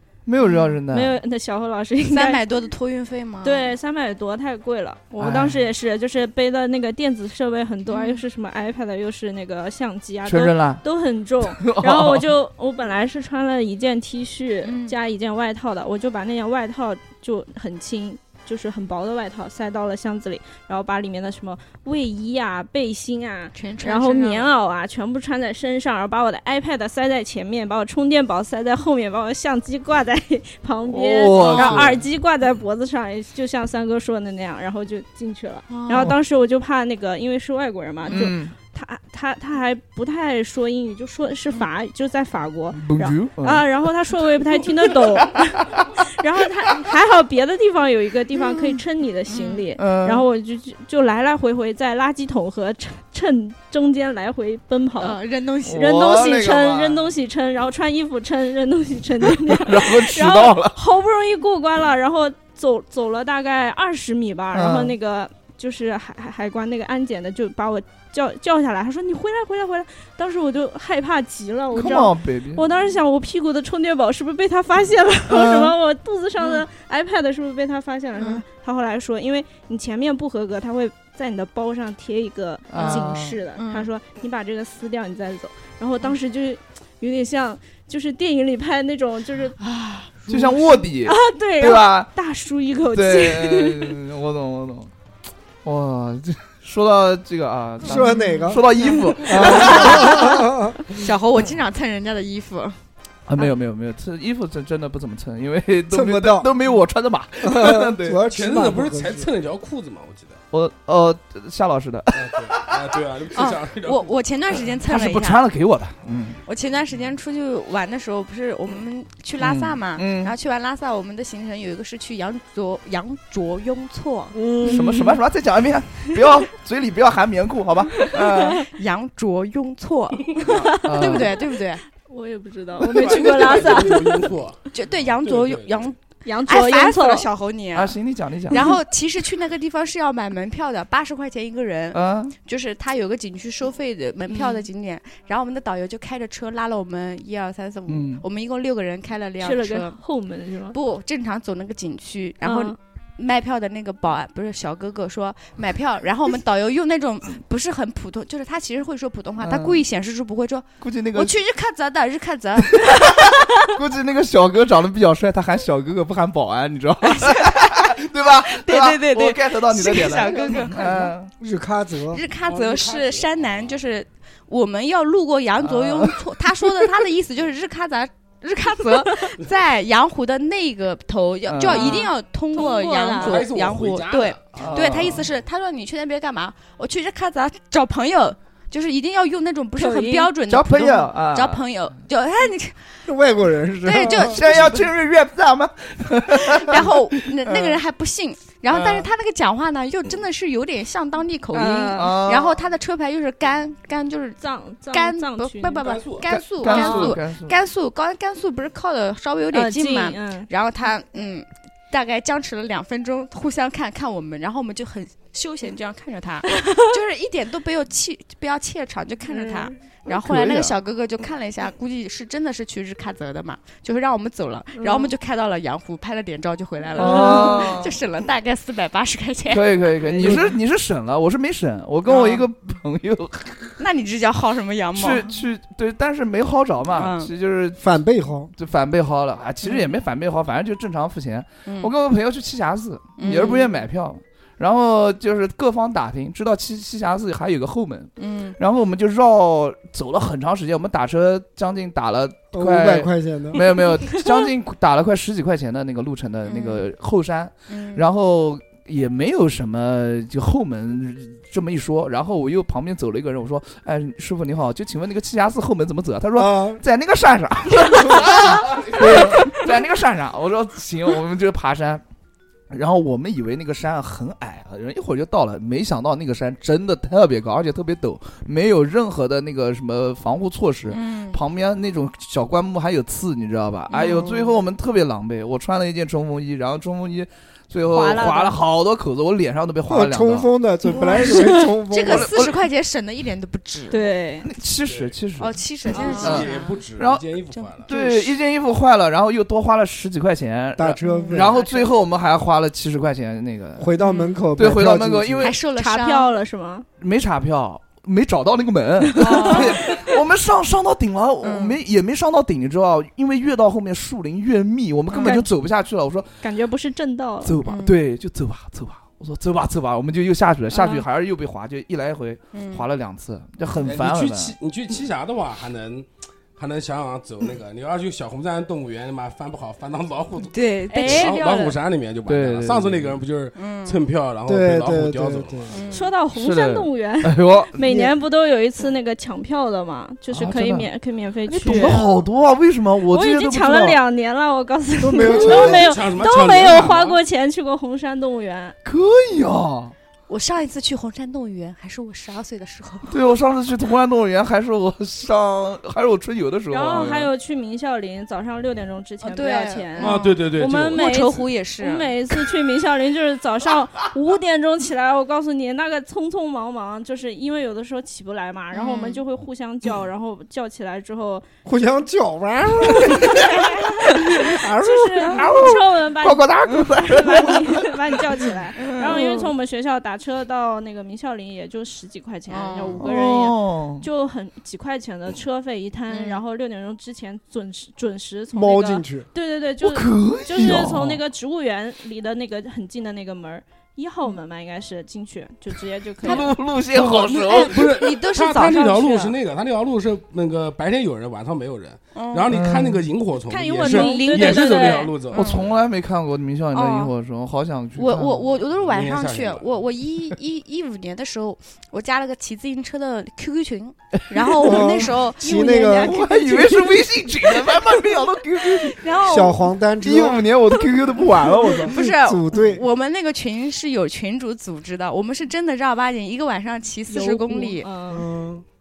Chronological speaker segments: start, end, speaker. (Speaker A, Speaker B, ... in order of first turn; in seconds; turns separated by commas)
Speaker A: 0.2-1.2, Speaker B: 0.4-0.8, Speaker C: 0.9-2.4, Speaker B: 2.0-3.7, Speaker C: 3.4-55.2, Speaker A: 5.2-5.6, Speaker B: 7.9-8.2, Speaker A: 10.2-10.8, Speaker A: 11.4-12.3, Speaker B: 14.6-14.9, Speaker B: 23.5-24.5, Speaker A: 30.9-32.0, Speaker B: 31.4-31.9, Speaker B: 35.7-36.1, Speaker A: 38.1-38.5, Speaker A: 42.7-44.1, Speaker A: 45.3-45.8, Speaker B: 48.3-49.6, Speaker A: 49.8-50.2, Speaker B: 55.0-56.0, Speaker A: 55.6-57.1, Speaker C: 55.8-89.6, Speaker A: 59.4-60.8, Speaker A: 64.5-64.9, Speaker A: 71.7-72.7, Speaker A: 75.3-75.7, Speaker B: 76.4-76.6, Speaker B: 78.2-78.4, Speaker A: 82.7-83.4, Speaker B: 82.8-83.9, Speaker B: 89.6-90.8, Speaker A: 90.2-92.1, Speaker C: 91.0-94.0, Speaker A: 92.9-94.9, Speaker A: 95.6-100.3, Speaker D: 97.8-100.9, Speaker B: 97.9-102.8, Speaker A: 103.3-108.2, Speaker D: 105.9-106.5, Speaker D: 107.4-109.3, Speaker E: 108.3-110.4, Speaker A: 110.5-112.7, Speaker E: 112.1-114.2, Speaker B: 113.3-115.4, Speaker A: 114.8-116.4, Speaker B: 116.4-124.4, Speaker A: 119.4-120.3, Speaker D: 124.3-124.8, Speaker A: 124.6-128.7, Speaker C: 128.0-128.6, Speaker B: 128.5-131.8, Speaker A: 130.4-131.4, Speaker C: 130.5-131.4, Speaker C: 132.0-134.4, Speaker E: 132.8-135.9, Speaker B: 134.7-137.9, Speaker C: 136.2-137.3, Speaker A: 137.7-138.7, Speaker B: 138.5-150.0, Speaker A: 141.9-142.3, Speaker C: 144.3-144.6, Speaker A: 147.9-148.2, Speaker C: 149.4-150.8, Speaker B: 150.7-163.7, Speaker C: 152.4-152.8, Speaker A: 159.4-159.8, Speaker A: 160.8-161.3, Speaker A: 162.8-171.3, Speaker B: 167.0-167.9, Speaker B: 168.5-171.1, Speaker D: 171.4-172.2, Speaker B: 172.1-192.8, Speaker E: 172.4-173.8, Speaker A: 175.6-176.4, Speaker A: 181.4-182.1, Speaker C: 181.7-183.5, Speaker E: 183.2-185.2, Speaker A: 184.6-185.2, Speaker C: 189.8-190.3, Speaker A: 190.5-191.6, Speaker D: 193.1-194.8, Speaker B: 193.8-194.7, Speaker A: 194.0-197.8, Speaker B: 196.5-204.4, Speaker A: 198.7-199.1, Speaker C: 201.5-202.2, Speaker A: 201.9-202.6, Speaker C: 204.4-206.0, Speaker B: 204.9-230.5, Speaker E: 205.8-206.2, Speaker A: 206.3-207.5, Speaker C: 206.6-207.1, Speaker C: 209.5-210.5, Speaker C: 216.5-216.9, Speaker C: 219.3-219.7, Speaker A: 220.1-220.8, Speaker C: 224.7-225.1, Speaker A: 226.9-228.0, Speaker C: 227.0-227.7, Speaker A: 229.5-233.8, Speaker D: 230.2-230.5, Speaker B: 232.1-232.4, Speaker B: 233.8-235.3, Speaker A: 234.9-237.8, Speaker B: 236.9-237.3, Speaker D: 237.8-238.5, Speaker A: 238.6-272.0, Speaker B: 241.7-241.9, Speaker B: 243.2-243.7, Speaker B: 248.2-248.6, Speaker D: 252.5-253.6, Speaker B: 256.4-256.8, Speaker B: 257.7-258.0, Speaker D: 266.4-266.8, Speaker A: 272.7-290.5, Speaker B: 280.9-281.4, Speaker B: 283.9-284.5, Speaker C: 287.9-288.6, Speaker D: 289.9-292.4, Speaker B: 290.9-294.1, Speaker A: 292.1-292.5, Speaker C: 293.9-294.5, Speaker A: 294.4-295.6, Speaker E: 294.8-295.1, Speaker B: 295.4-296.8, Speaker E: 295.9-297.9, Speaker A: 296.2-297.3, Speaker B: 297.5-298.2, Speaker A: 297.9-303.9, Speaker D: 300.8-301.6, Speaker B: 301.0-301.8, Speaker D: 303.8-305.6, Speaker B: 304.0-304.4, Speaker A: 304.6-305.6, Speaker B: 305.4-306.3, Speaker C: 305.7-306.9, Speaker A: 307.0-316.3, Speaker C: 309.1-310.0, Speaker B: 309.2-310.0, Speaker B: 311.4-311.8, Speaker B: 315.1-315.4, Speaker C: 315.2-315.5, Speaker C: 316.4-317.6, Speaker A: 317.4-324.5, Speaker B: 317.6-318.0, Speaker C: 320.7-321.0, Speaker B: 322.5-322.9, Speaker E: 323.8-335.8, Speaker B: 330.4-331.8, Speaker C: 330.9-331.5, Speaker A: 332.3-333.2, Speaker B: 333.5-334.0, Speaker D: 334.5-335.8, Speaker B: 335.7-336.1, Speaker C: 335.9-342.0, Speaker A: 336.3-337.7, Speaker D: 337.8-338.1, Speaker A: 340.3-340.9, Speaker A: 341.5-344.0, Speaker C: 343.1-348.7, Speaker D: 345.0-346.0, Speaker E: 345.4-347.2, Speaker A: 348.8-349.9, Speaker B: 350.3-353.1, Speaker A: 353.1-357.3, Speaker C: 356.7-371.4, Speaker B: 359.2-360.4, Speaker E: 360.0-361.1, Speaker B: 360.9-362.2, Speaker B: 368.7-369.2, Speaker D: 371.6-373.7, Speaker A: 373.0-373.4, Speaker C: 373.3-396.5, Speaker D: 374.3-375.4, Speaker A: 375.3-378.4, Speaker B: 378.8-379.5, Speaker B: 382.5-383.1, Speaker A: 383.0-384.1, Speaker B: 386.1-386.4, Speaker D: 388.5-389.3, Speaker A: 389.8-391.2, Speaker A: 396.2-397.8, Speaker E: 396.8-405.6, Speaker B: 397.5-399.3, Speaker B: 402.1-402.5, Speaker A: 402.5-403.1, Speaker C: 403.5-405.1, Speaker B: 403.8-405.7, Speaker A: 405.3-408.5, Speaker B: 406.7-407.1, Speaker B: 407.9-416.9, Speaker E: 408.7-409.8, Speaker A: 414.4-414.8, Speaker D: 414.6-416.2, Speaker A: 416.0-419.1, Speaker C: 416.4-416.7, Speaker B: 418.8-419.6, Speaker D: 419.2-420.5, Speaker A: 420.0-422.0, Speaker B: 421.8-427.9, Speaker D: 421.9-422.8, Speaker C: 427.1-428.3, Speaker D: 428.1-428.6